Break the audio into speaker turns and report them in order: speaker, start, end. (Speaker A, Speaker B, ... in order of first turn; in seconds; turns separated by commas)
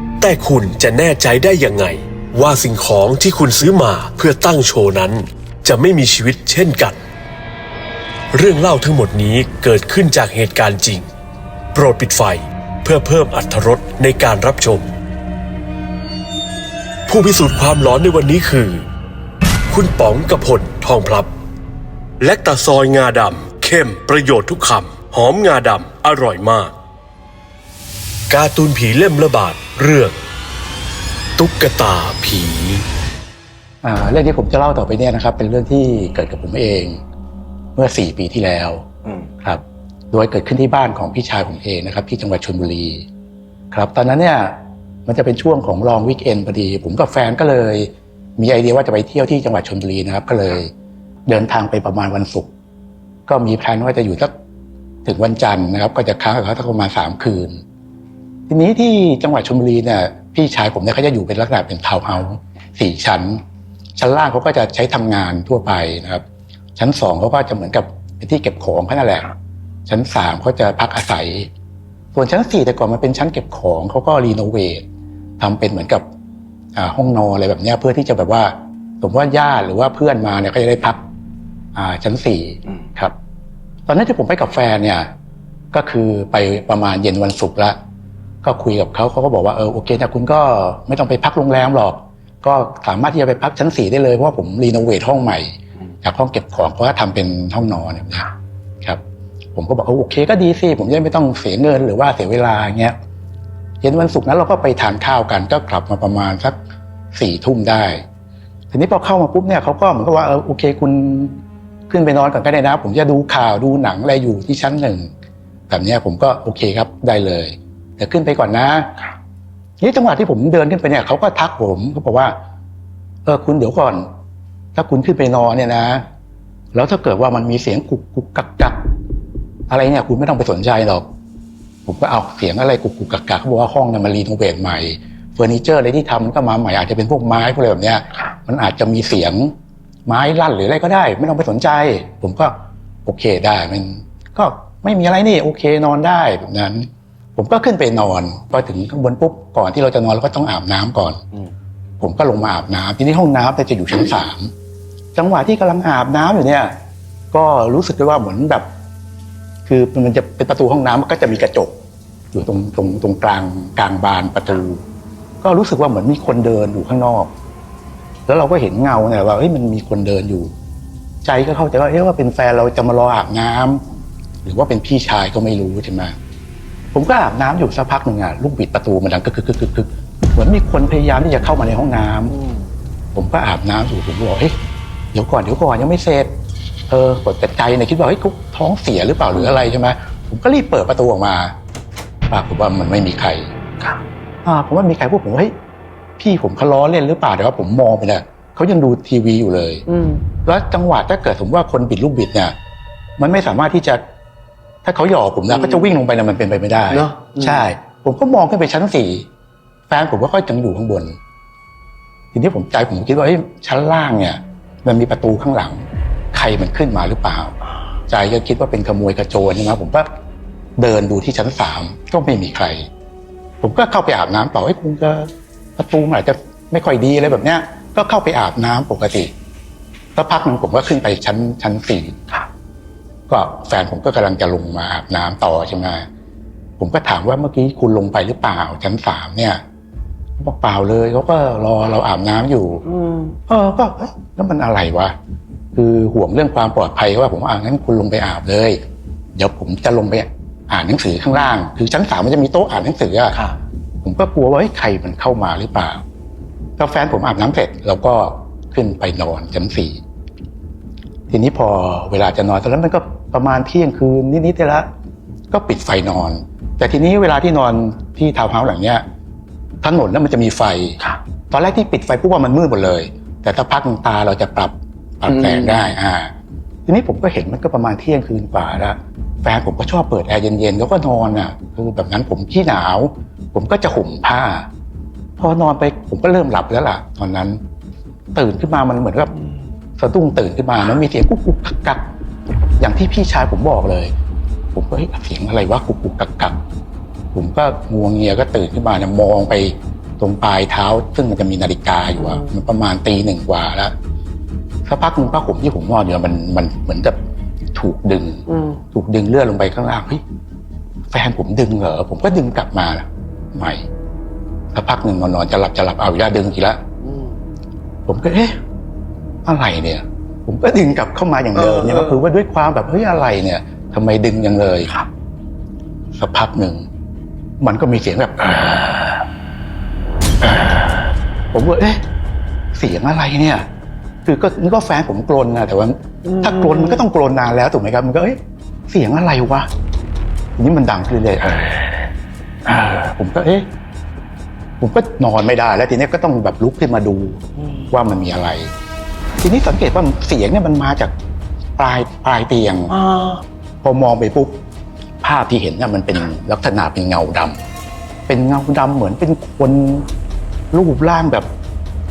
Speaker A: 0.2-7.0, Speaker A: 8.3-11.1, Speaker A: 11.7-14.9, Speaker A: 17.1-18.8, Speaker A: 19.7-21.3, Speaker A: 22.2-26.7, Speaker A: 28.3-30.2, Speaker A: 31.4-32.9, Speaker B: 33.8-37.0, Speaker B: 37.8-38.9, Speaker B: 39.4-43.0, Speaker B: 43.7-50.7, Speaker B: 51.3-52.5, Speaker B: 53.3-54.3, Speaker B: 55.0-57.6, Speaker B: 58.5-63.4, Speaker B: 64.0-66.2, Speaker B: 66.8-69.3, Speaker B: 69.9-71.5, Speaker B: 72.1-74.8, Speaker B: 75.4-76.0, Speaker B: 76.8-81.0, Speaker B: 81.8-83.1, Speaker B: 83.8-85.1, Speaker B: 85.7-87.8, Speaker B: 88.4-98.3, Speaker B: 99.5-102.9, Speaker B: 103.8-106.6, Speaker B: 107.1-108.0, Speaker B: 108.7-115.1, Speaker B: 115.7-118.9, Speaker B: 119.8-122.3, Speaker B: 123.2-124.1, Speaker B: 124.8-126.0, Speaker B: 126.7-128.8, Speaker B: 129.7-131.1, Speaker B: 131.8-139.5, Speaker B: 140.1-142.5, Speaker B: 143.0-151.2, Speaker B: 152.0-154.5, Speaker B: 155.1-156.7, Speaker B: 157.3-158.7, Speaker B: 159.7-161.7, Speaker B: 162.3-164.8, Speaker B: 165.4-167.3, Speaker B: 168.3-170.5, Speaker B: 171.2-173.8, Speaker B: 174.4-176.1, Speaker B: 176.9-182.3, Speaker B: 183.1-184.5, Speaker B: 185.1-186.3, Speaker B: 186.9-191.5, Speaker B: 192.3-193.5, Speaker B: 194.4-195.5, Speaker B: 196.2-199.8, Speaker C: 199.9-200.2, Speaker B: 200.4-202.5, Speaker B: 203.2-204.0, Speaker B: 204.8-209.3, Speaker C: 205.5-205.9, Speaker C: 206.9-207.6, Speaker B: 209.9-211.1, Speaker B: 212.3-217.5, Speaker B: 218.1-220.1, Speaker B: 220.8-222.9, Speaker B: 223.6-229.3, Speaker B: 230.1-232.2, Speaker B: 233.3-236.0, Speaker B: 236.8-239.6, Speaker B: 240.4-242.8, Speaker C: 242.9-243.3, Speaker B: 243.5-245.1, Speaker B: 245.7-248.8, Speaker B: 249.3-253.4, Speaker B: 254.0-256.0, Speaker B: 256.8-260.0, Speaker B: 261.3-264.9, Speaker B: 265.5-269.0, Speaker B: 269.8-271.0, Speaker B: 271.5-276.3, Speaker C: 275.3-275.9, Speaker B: 276.9-284.7, Speaker B: 285.4-287.6, Speaker B: 288.3-289.3, Speaker B: 290.0-292.0, Speaker B: 292.8-294.1, Speaker B: 294.7-296.6, Speaker B: 297.3-303.9, Speaker B: 304.9-307.2, Speaker B: 307.8-310.2, Speaker C: 308.5-308.8, Speaker B: 311.1-313.9, Speaker B: 314.7-316.8, Speaker C: 317.0-317.3, Speaker B: 318.1-318.6, Speaker B: 319.4-324.9, Speaker C: 321.6-322.2, Speaker B: 326.2-326.9, Speaker B: 327.6-329.2, Speaker B: 331.5-332.0, Speaker B: 332.8-333.7, Speaker B: 334.2-338.4, Speaker C: 336.2-337.0, Speaker B: 338.9-339.7, Speaker B: 340.6-341.9, Speaker B: 342.6-343.7, Speaker B: 344.8-348.7, Speaker B: 349.4-351.1, Speaker B: 351.8-353.0, Speaker C: 352.9-353.4, Speaker B: 353.8-354.6, Speaker B: 355.2-357.6, Speaker B: 358.3-360.1, Speaker B: 360.7-361.5